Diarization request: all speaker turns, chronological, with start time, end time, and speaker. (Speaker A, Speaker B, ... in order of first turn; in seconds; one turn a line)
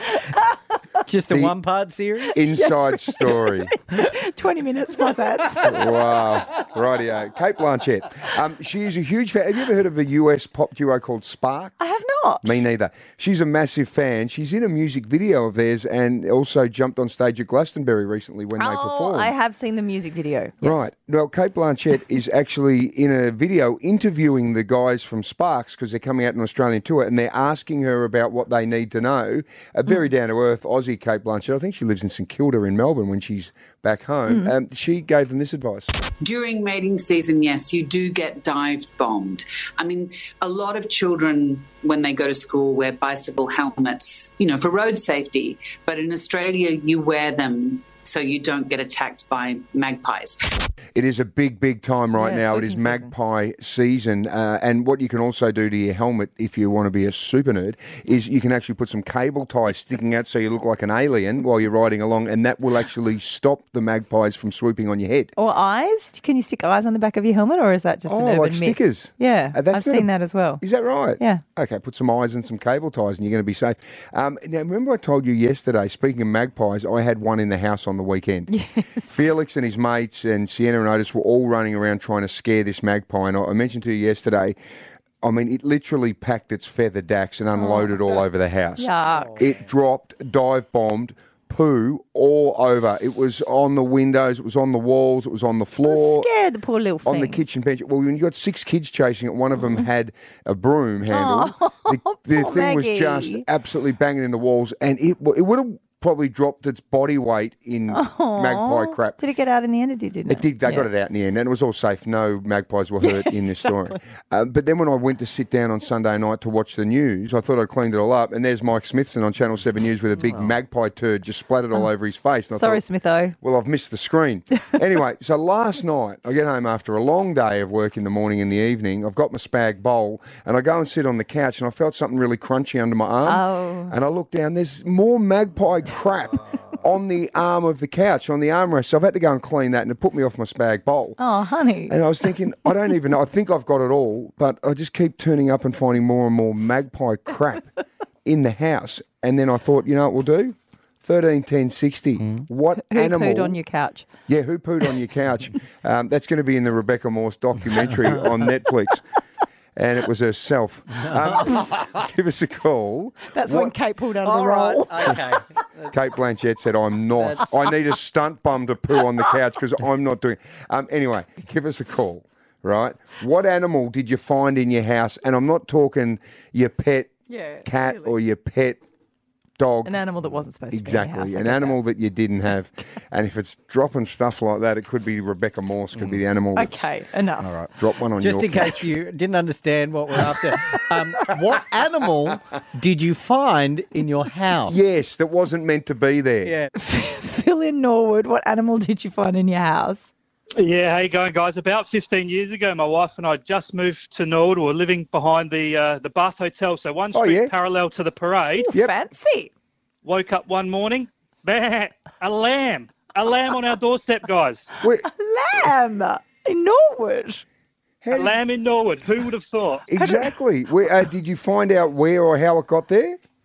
Speaker A: 1.0-2.4
Speaker B: 1.3-1.6
Speaker B: 2.3-3.7
Speaker C: 2.5-5.8
Speaker B: 5.6-11.8
Speaker C: 11.8-12.5
Speaker B: 12.4-19.3
Speaker C: 18.6-20.8
Speaker B: 20.6-35.9
Speaker D: 36.2-50.4
Speaker B: 50.9-65.3
Speaker C: 52.1-53.1
Speaker C: 65.3-70.6
Speaker B: 68.0-70.1
Speaker B: 70.6-78.5
Speaker C: 71.2-71.4
Speaker C: 78.5-79.2
Speaker B: 79.1-84.6
Speaker B: 85.2-96.3
Speaker C: 87.5-88.2
Speaker C: 88.8-89.4
Speaker A: 89.1-89.6
Speaker C: 95.8-97.4
Speaker B: 97.0-109.2
Speaker C: 101.1-103.4
Speaker C: 107.9-110.9
Speaker B: 110.3-122.8
Speaker C: 113.0-114.0
Speaker A: 120.2-120.5
Speaker C: 122.5-123.3
Speaker B: 123.4-141.2
Speaker C: 133.2-133.9
Speaker C: 141.2-141.9
Speaker B: 141.9-147.7
Speaker B: 148.2-153.6
Speaker C: 152.9-154.1
Speaker B: 154.3-159.0
Speaker B: 159.8-163.7
Speaker A: 161.0-161.4
Speaker C: 163.3-165.2
Speaker A: 164.2-166.0
Speaker B: 165.9-177.1
Speaker A: 167.2-167.5
Speaker C: 177.3-178.1
Speaker B: 177.6-178.8
Speaker B: 179.6-180.0
Speaker C: 179.8-181.8
Speaker B: 180.7-186.9
Speaker C: 186.5-187.5
Speaker B: 187.7-188.9
Speaker A: 188.2-194.8
Speaker B: 194.7-196.6
Speaker A: 196.4-196.7
Speaker C: 196.7-200.1
Speaker E: 200.6-208.7
Speaker B: 207.1-207.5
Speaker C: 208.6-209.5
Speaker E: 210.0-214.7
Speaker B: 214.8-215.1
Speaker C: 215.0-217.4
Speaker B: 218.0-218.4
Speaker E: 218.1-219.8
Speaker B: 219.9-223.2
Speaker C: 219.9-220.3